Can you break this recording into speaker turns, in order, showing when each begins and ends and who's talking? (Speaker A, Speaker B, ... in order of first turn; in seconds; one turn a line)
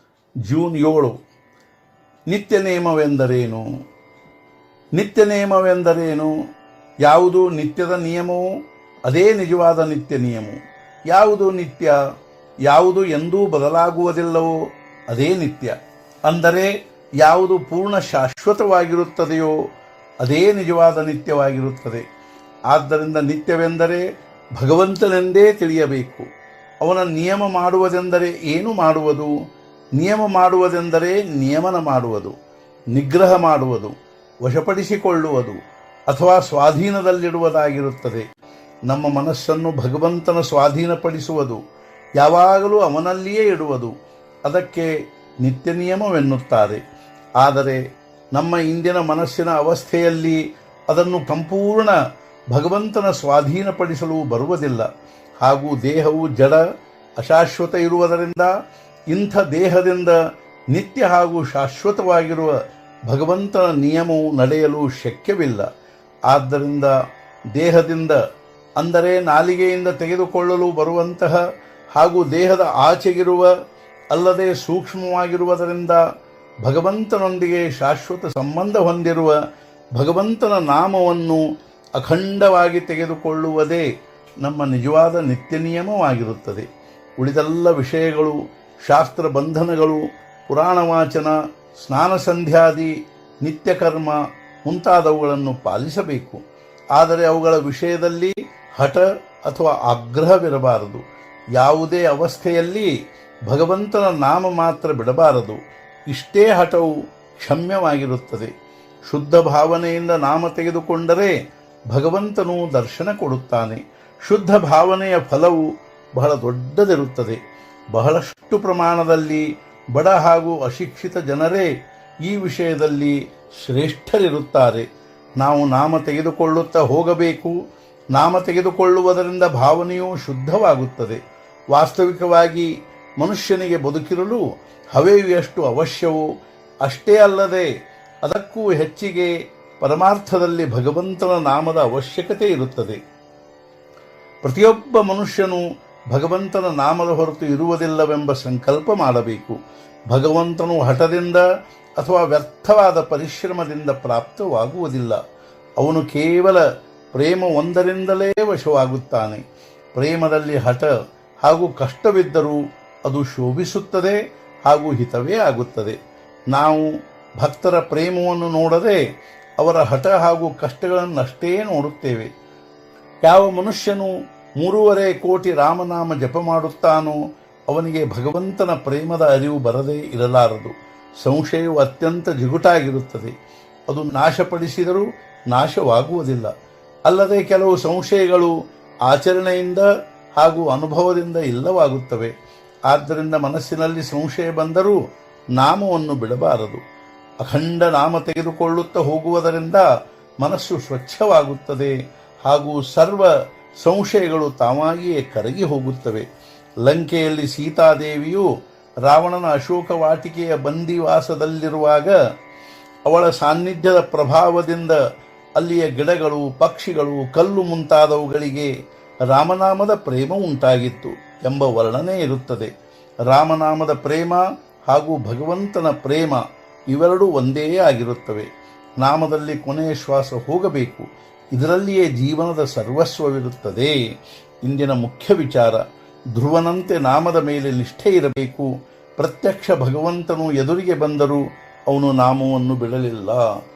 Speaker A: 0.4-1.1
Speaker A: 2.3-3.6
Speaker A: 4.9-6.3
Speaker A: 7.0-8.4
Speaker A: 9.1-10.6
Speaker A: 11.1-11.9
Speaker A: 12.7-14.5
Speaker A: 15.1-15.7
Speaker A: 16.3-16.7
Speaker A: 17.2-19.5
Speaker A: 20.2-22.0
Speaker A: 22.7-24.0
Speaker A: 24.6-26.2
Speaker A: 26.8-29.3
Speaker A: 30.0-32.3
Speaker A: 32.9-33.9
Speaker A: 34.4-35.6
Speaker A: 36.1-38.2
Speaker A: 38.9-41.6
Speaker A: 42.2-43.9
Speaker A: 44.5-44.9
Speaker A: 45.4-46.8
Speaker A: 47.4-47.8
Speaker A: 48.3-50.4
Speaker A: 50.9-51.9
Speaker A: 52.5-54.9
Speaker A: 55.4-56.6
Speaker A: 57.2-58.5
Speaker A: 59.1-60.1
Speaker A: 60.7-62.5
Speaker A: 63.1-65.7
Speaker A: 66.3-66.9
Speaker A: 67.5-68.2
Speaker A: 68.8-71.4
Speaker A: 72.0-73.5
Speaker A: 74.1-76.0
Speaker A: 76.6-79.3
Speaker A: 80.0-81.4
Speaker A: 82.0-83.8
Speaker A: 84.4-86.6
Speaker A: 87.2-91.3
Speaker A: 91.8-92.9
Speaker A: 93.4-96.4
Speaker A: 97.0-101.0
Speaker A: 101.6-102.9
Speaker A: 103.5-105.6
Speaker A: 106.1-106.9
Speaker A: 107.4-108.5
Speaker A: 109.1-111.3
Speaker A: 111.9-115.6
Speaker A: 116.2-117.4
Speaker A: 117.9-121.7
Speaker A: 122.3-124.8
Speaker A: 125.4-127.5
Speaker A: 128.1-131.2
Speaker A: 131.7-132.7
Speaker A: 133.2-134.4
Speaker A: 134.9-136.2
Speaker A: 136.8-137.7
Speaker A: 138.2-143.0
Speaker A: 144.4-149.6
Speaker A: 150.1-151.4
Speaker A: 152.0-155.2
Speaker A: 155.8-156.6
Speaker A: 157.1-159.4
Speaker A: 159.9-160.9
Speaker A: 161.4-165.9
Speaker A: 166.5-166.8
Speaker A: 167.4-169.0
Speaker A: 169.6-172.3
Speaker A: 173.2-177.2
Speaker A: 177.7-180.7
Speaker A: 181.2-183.3
Speaker A: 183.9-186.5
Speaker A: 187.1-188.5
Speaker A: 189.1-189.9
Speaker A: 190.4-192.3
Speaker A: 192.9-195.0
Speaker A: 195.6-196.8
Speaker A: 197.4-199.8
Speaker A: 200.4-201.9
Speaker A: 202.4-203.3
Speaker A: 203.8-206.2
Speaker A: 206.8-208.4
Speaker A: 209.0-212.1
Speaker A: 213.1-215.0
Speaker A: 215.6-218.7
Speaker A: 219.3-222.7
Speaker A: 223.3-228.5
Speaker A: 229.0-233.9
Speaker A: 234.6-235.8
Speaker A: 236.3-243.4